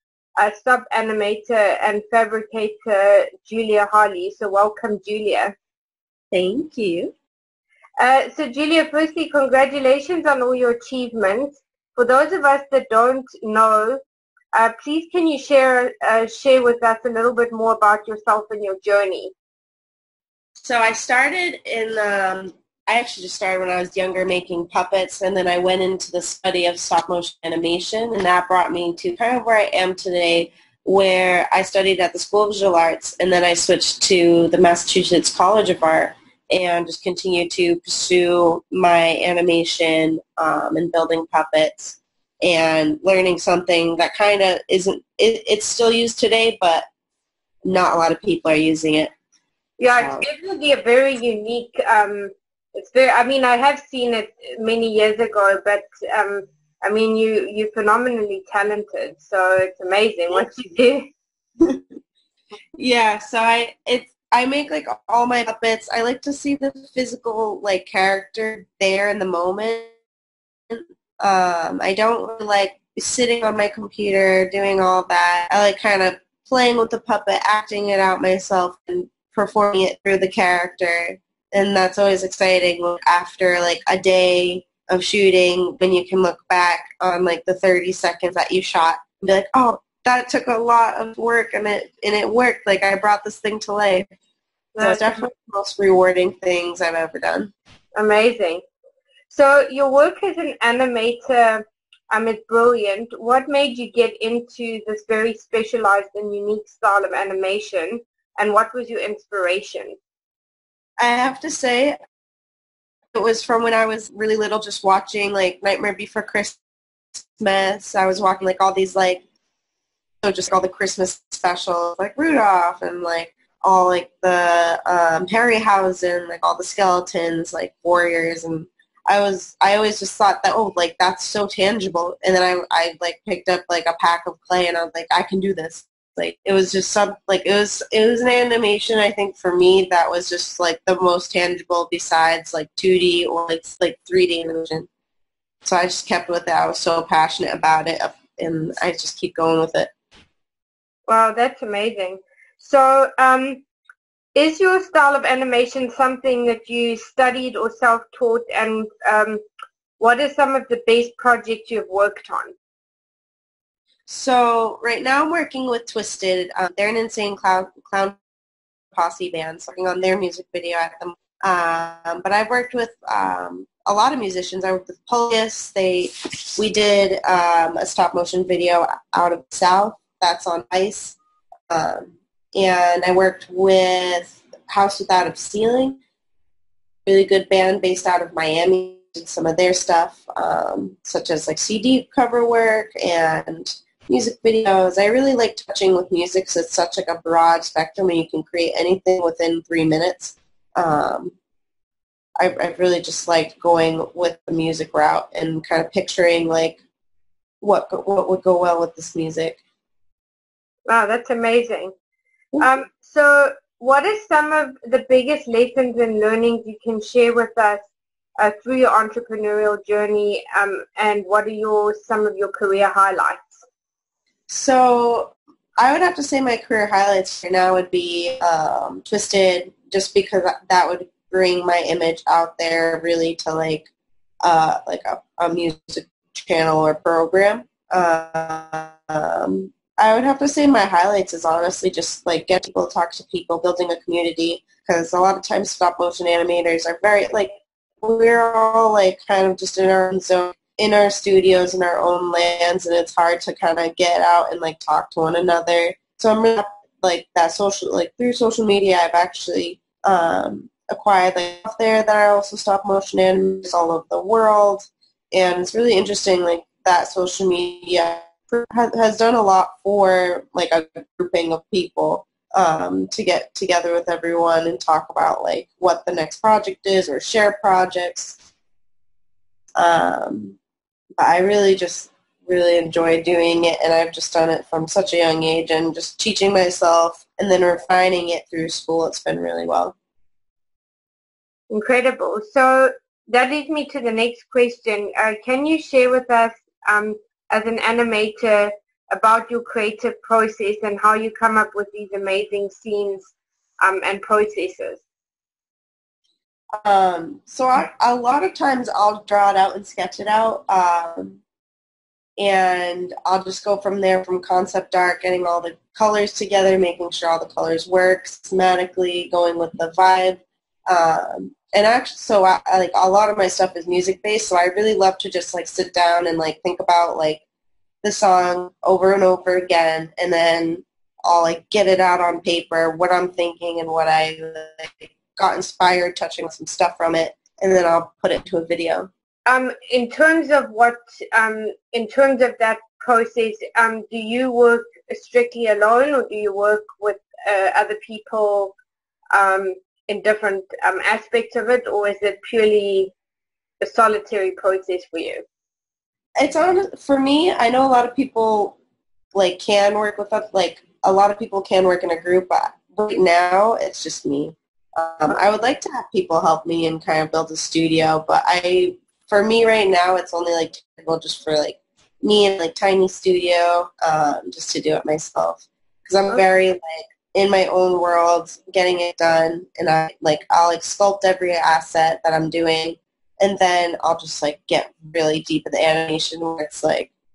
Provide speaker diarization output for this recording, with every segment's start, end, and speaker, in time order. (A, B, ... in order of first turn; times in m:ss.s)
0:00.4-0:05.6 A
0:06.3-0:07.1 B
0:08.0-0:14.0 A
0:14.5-0:19.3 A
0:20.6-0:46.8 B
0:47.6-0:49.1 B
0:49.8-1:01.1 A
0:49.9-0:50.3 B
1:02.8-1:09.9 B
1:10.7-1:34.1 B
1:34.8-1:35.2 A
1:34.8-1:37.5 B
1:38.0-1:38.6 A
1:39.3-1:50.0 A
1:51.0-1:52.0 B
1:53.1-1:56.6 B
1:57.4-1:59.2 B
2:00.2-2:24.9 B
2:25.6-2:29.9 B
2:31.1-2:33.6 A
2:34.4-2:39.4 A
2:40.0-2:42.6 A
2:44.1-2:48.2 B
2:49.0-3:01.2 B
3:01.7-3:06.0 B
3:07.1-3:21.4 B
3:22.4-3:26.8 B
3:27.6-3:29.6 B
3:30.9-3:31.9 A
3:32.6-3:37.8 A
3:38.4-3:43.6 A
3:44.5-3:53.9 B
3:54.4-4:38.4 B
4:39.8-4:40.6 B
4:41.2-4:50.0 B
4:51.7-5:05.0 A
5:06.8-5:11.4 B
5:12.4-5:27.4 B
5:28.0-5:39.1 B
5:39.5-5:48.7 A
5:49.3-5:53.1 A
5:53.8-5:55.4 A
5:56.4-5:58.8 B
5:59.3-6:27.1 B